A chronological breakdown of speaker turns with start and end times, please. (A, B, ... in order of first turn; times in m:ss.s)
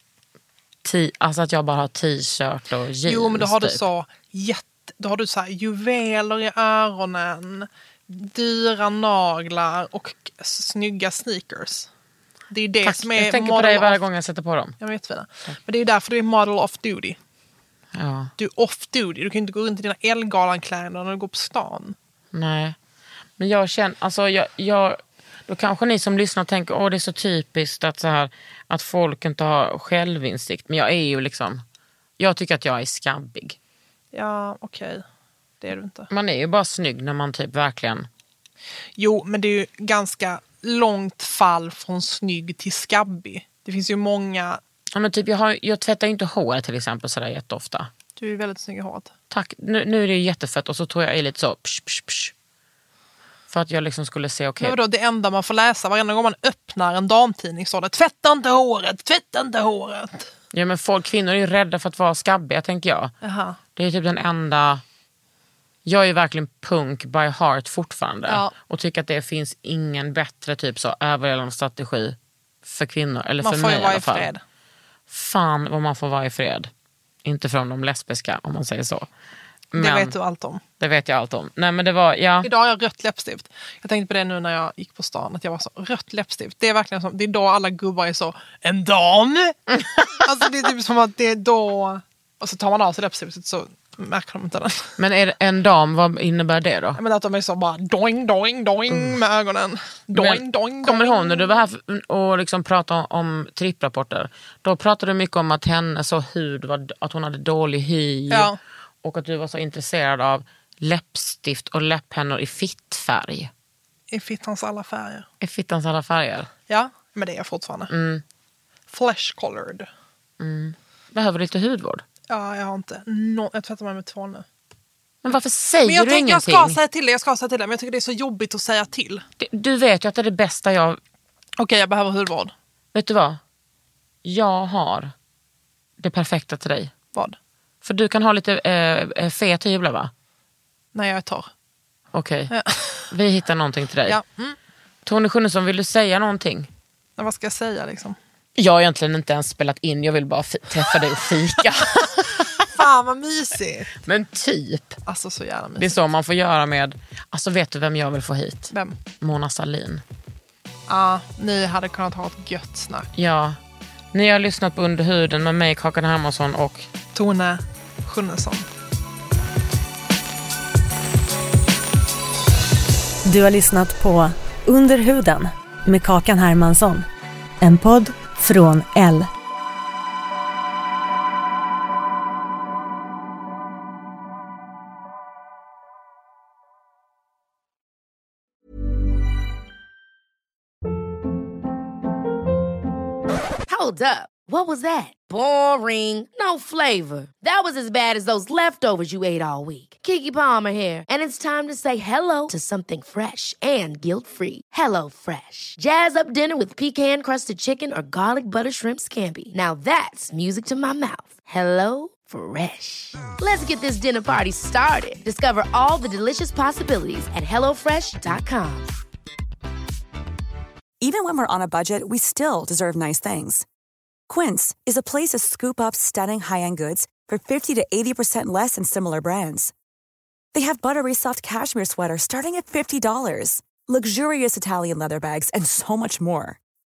0:00.8-0:03.8 A
0:03.0-0:11.9 B
0:12.5-0:14.0 B
0:12.8-0:14.8 A
0:14.8-0:17.2 B
0:17.9-0:18.3 A
0:18.4-0:22.0 B
0:22.3-0:22.8 A
0:23.4-0:31.6 A
0:32.2-0:33.6 A
0:34.1-0:35.1 B
0:35.6-0:36.1 B
0:36.1-0:38.1 A
0:39.0-0:44.6 B
0:44.9-0:47.9 A
0:48.2-0:49.1 B
0:49.3-0:52.3 A
0:53.5-0:54.8 A
0:54.6-1:00.3 B
1:00.5-1:03.1 A
1:03.2-1:03.6 B
1:03.8-1:04.8 A
1:05.8-1:14.3 A
1:08.3-1:08.5 B
1:13.4-1:14.4 B
1:15.1-1:16.7 A
1:17.2-1:19.1 A
1:19.7-1:20.2 A
1:19.8-1:20.6 B
1:20.8-1:22.5 A
1:22.4-1:34.9 B
1:35.0-1:37.0 A
1:37.0-1:41.6 B
1:38.9-1:39.2 A
1:40.1-1:48.5 A
1:48.3-1:48.6 B
1:49.0-1:53.5 A
1:54.1-1:55.3 B
1:55.4-1:56.5 A
1:56.7-1:57.9 B
1:57.9-1:58.2 A
1:58.9-1:59.9 B
2:00.4-2:02.0 A
2:02.3-2:04.5 B
2:05.2-2:06.8 A
2:05.8-2:09.2 B
2:09.4-2:11.0 A
2:11.6-2:12.5 B
2:12.9-2:13.4 A
2:14.2-2:15.1 A
2:16.0-2:16.9 A
2:17.8-2:20.1 A
2:20.9-2:21.5 B
2:22.1-2:22.5 A
2:22.5-2:23.1 B
2:23.1-2:24.2 A
2:24.0-2:24.6 B
2:25.0-2:26.7 A
2:27.2-2:28.2 B
2:28.6-2:32.7 A
2:32.7-2:33.9 B
2:34.0-2:35.0 A
2:35.0-2:36.0 B
2:35.8-2:40.0 A
2:38.7-2:39.0 B
2:40.9-2:43.1 B
2:43.2-2:43.6 A
2:44.1-2:46.9 A
2:47.1-2:48.7 B
2:53.2-2:57.1 C
2:57.6-2:59.3 C
3:13.7-3:38.9 D
3:41.0-3:43.6 E
3:44.3-3:49.7 E
3:50.5-3:56.6 E